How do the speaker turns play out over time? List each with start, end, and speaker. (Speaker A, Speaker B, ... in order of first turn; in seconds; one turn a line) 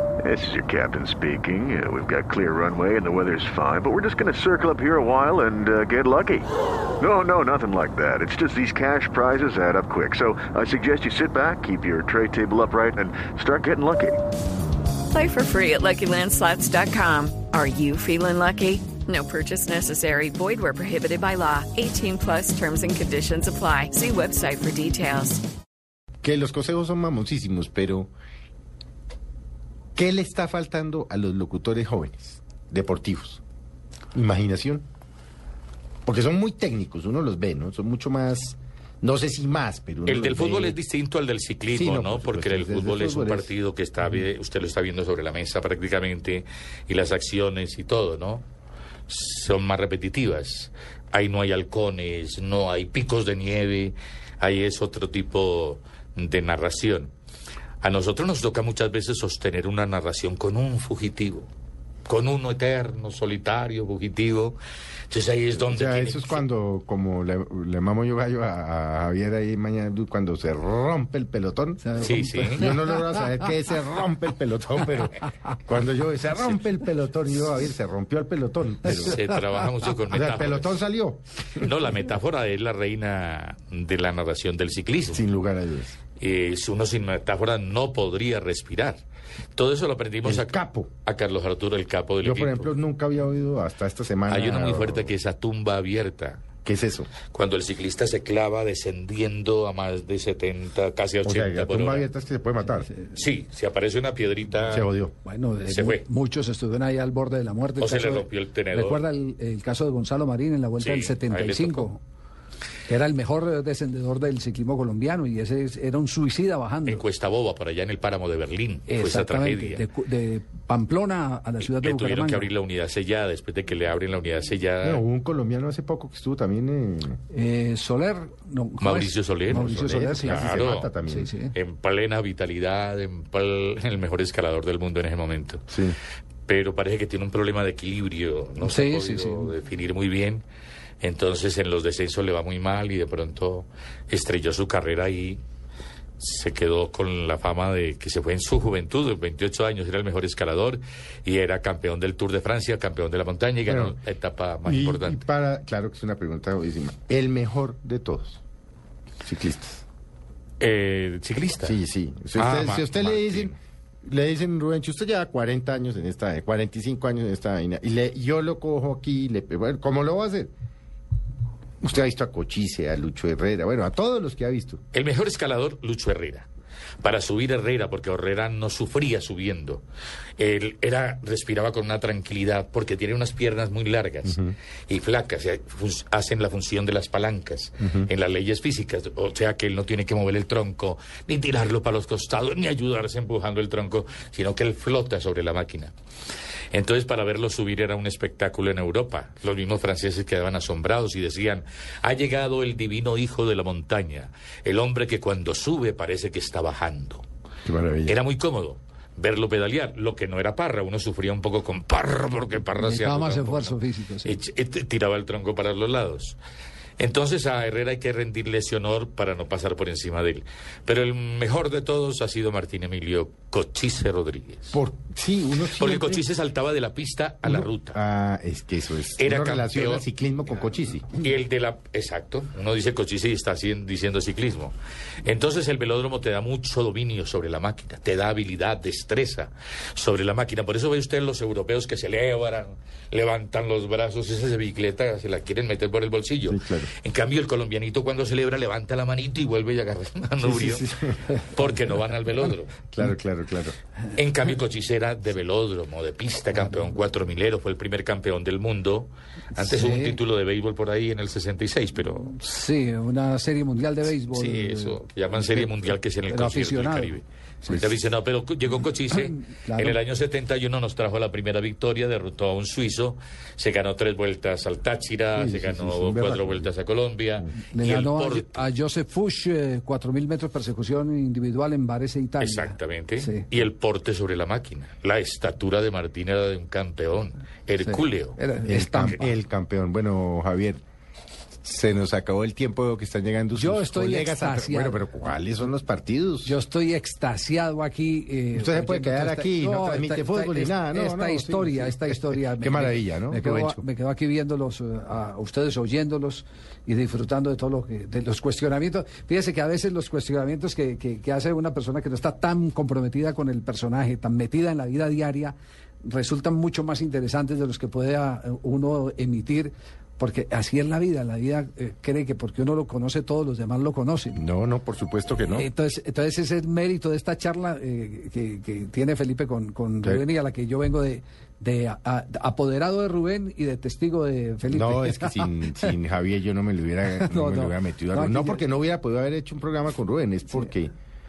Speaker A: 0.2-6.5
Speaker A: 7.0-14.2
Speaker B: 15.1-25.4
Speaker C: 26.2-28.1
Speaker C: 29.9-33.4
Speaker C: 34.1-34.9
Speaker C: 36.0-40.8
Speaker D: 40.1-48.5
Speaker C: 41.7-43.5
Speaker D: 49.1-57.1
Speaker D: 57.8-61.5
Speaker D: 62.1-64.6
Speaker D: 65.1-66.4
Speaker C: 65.6-71.9
Speaker E: 71.8-73.5
Speaker D: 72.0-72.7
Speaker C: 72.5-79.2
Speaker D: 78.8-80.8
Speaker C: 80.1-81.2
Speaker D: 81.6-85.3
Speaker C: 85.1-86.0
Speaker D: 86.2-89.0
Speaker D: 89.5-92.8
Speaker C: 90.2-90.9
Speaker C: 92.2-95.1
Speaker D: 94.3-96.4
Speaker C: 96.6-97.1
Speaker D: 97.3-102.1
Speaker C: 101.2-102.9
Speaker D: 103.1-104.9
Speaker C: 104.7-105.1
Speaker E: 105.2-112.0
Speaker D: 105.7-106.0
Speaker D: 107.8-109.0
Speaker D: 110.8-111.9
Speaker E: 112.9-117.0
Speaker D: 116.9-119.8
Speaker E: 118.9-122.5
Speaker D: 121.6-125.0
Speaker C: 124.8-127.2
Speaker E: 127.3-130.5
Speaker D: 128.8-130.9
Speaker C: 129.5-131.3
Speaker E: 131.1-131.6
Speaker D: 131.6-135.7
Speaker C: 135.7-136.0
Speaker D: 136.5-140.4
Speaker E: 138.6-139.5
Speaker D: 141.0-145.4
Speaker D: 146.2-155.2
Speaker C: 153.7-154.0
Speaker C: 154.7-158.4
Speaker C: 159.2-159.8
Speaker D: 160.6-161.8
Speaker C: 161.6-170.5
Speaker D: 162.3-163.5
Speaker C: 171.8-174.8
Speaker D: 174.9-176.5
Speaker D: 177.0-179.8
Speaker D: 180.4-195.9
Speaker C: 184.2-184.6
Speaker C: 187.8-188.1
Speaker D: 196.7-207.3
Speaker C: 207.7-208.2
Speaker D: 208.1-216.4
Speaker E: 212.8-214.4
Speaker D: 217.0-224.8
Speaker C: 224.7-226.3
Speaker D: 225.8-228.0
Speaker C: 227.4-231.2
Speaker D: 229.2-230.1
Speaker D: 231.2-252.8
Speaker C: 246.5-246.9
Speaker C: 250.4-251.3
Speaker C: 252.9-253.8
Speaker D: 254.2-262.4
Speaker E: 259.6-260.2
Speaker E: 262.3-265.7
Speaker D: 264.1-278.7
Speaker E: 266.3-267.9
Speaker E: 269.1-270.0
Speaker C: 275.4-276.7
Speaker E: 277.6-283.5
Speaker D: 282.4-288.4
Speaker E: 287.8-289.3
Speaker C: 288.7-290.8
Speaker C: 291.6-296.6
Speaker E: 293.5-295.0
Speaker E: 296.4-324.4
Speaker C: 298.6-303.8
Speaker C: 324.3-325.7
Speaker E: 325.5-335.9
Speaker C: 334.7-340.9
Speaker E: 337.2-338.6